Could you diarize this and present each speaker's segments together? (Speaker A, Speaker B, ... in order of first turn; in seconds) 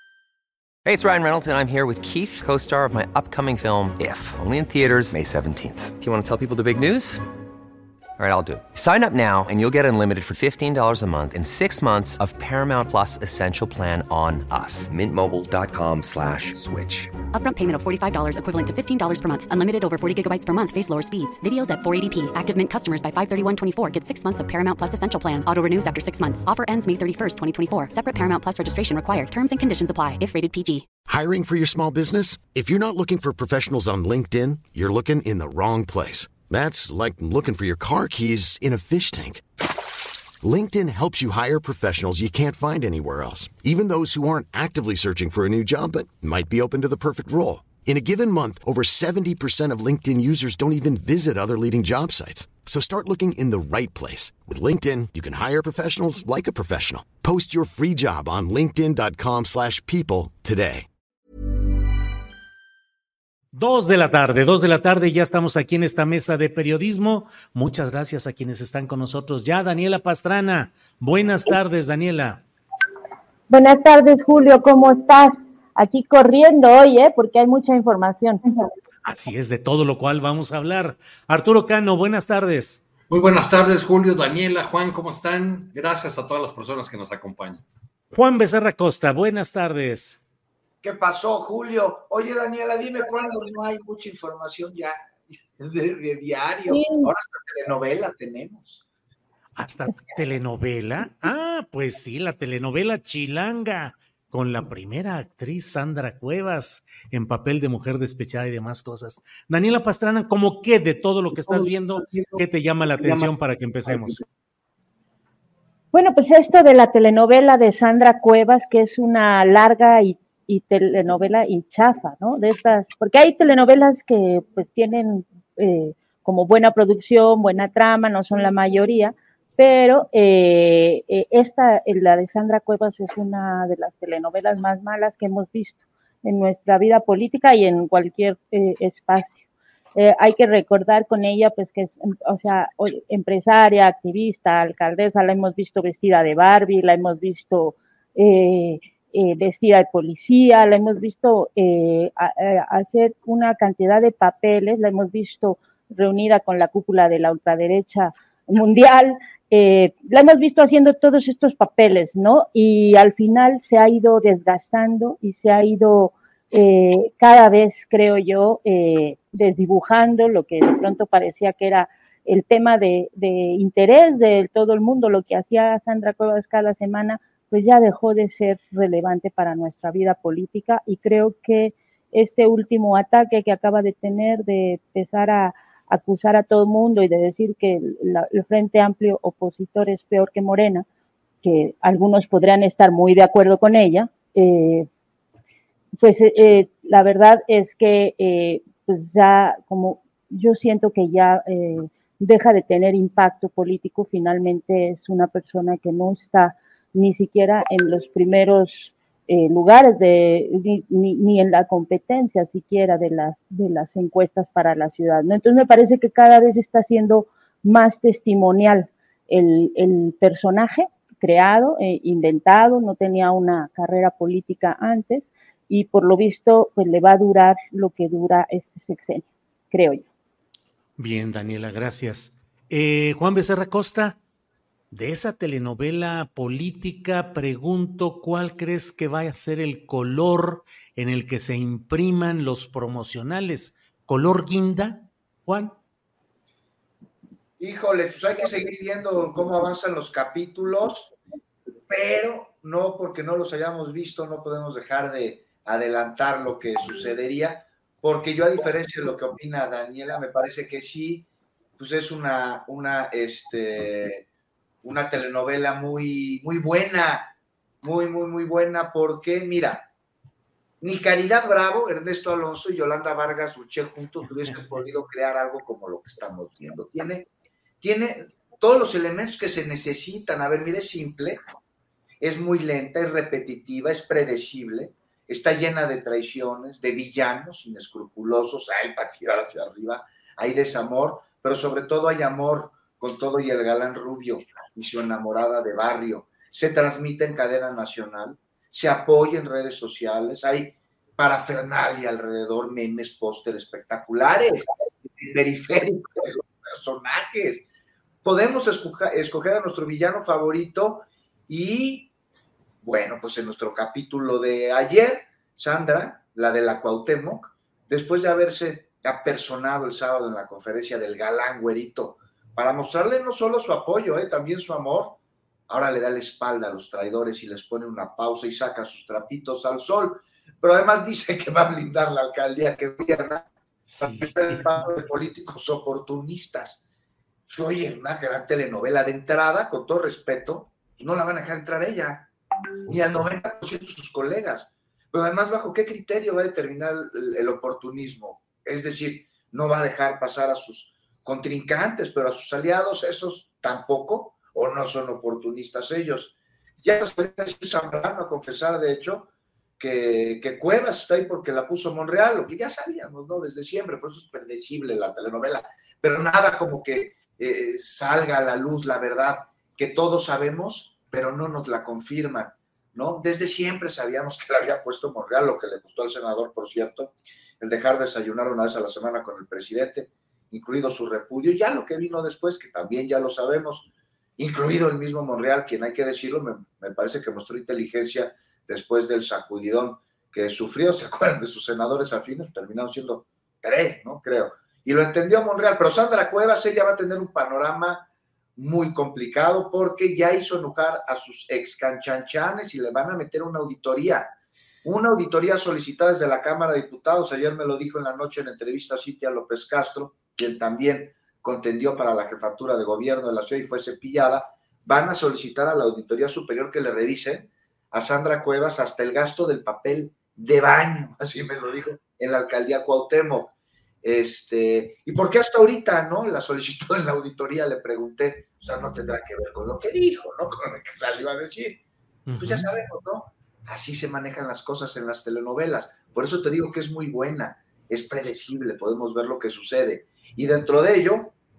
Speaker A: 0.8-7.2, 8.2-17.2
Speaker B: 17.3-30.9
Speaker C: 31.1-39.4, 40.4-60.9
Speaker D: 63.5-72.4, 79.0-82.8, 88.1-90.2, 99.6-114.2, 231.0-234.2, 234.9-245.8, 333.9-334.9, 342.9-343.3, 432.3-432.7
Speaker E: 73.5-78.4, 96.7-97.1, 115.9-139.4, 140.0-190.9, 191.4-194.9, 196.0-230.1
Speaker F: 83.1-87.7
Speaker G: 90.8-95.0, 95.5-98.8, 247.6-251.1, 251.9-261.3, 261.8-264.3, 264.8-269.9, 270.8-277.3, 277.8-281.4, 282.2-307.6, 308.2-312.1, 312.8-325.2, 325.7-333.5, 334.0-336.8, 337.5-342.3, 342.9-404.3, 404.8-431.8, 432.4-441.4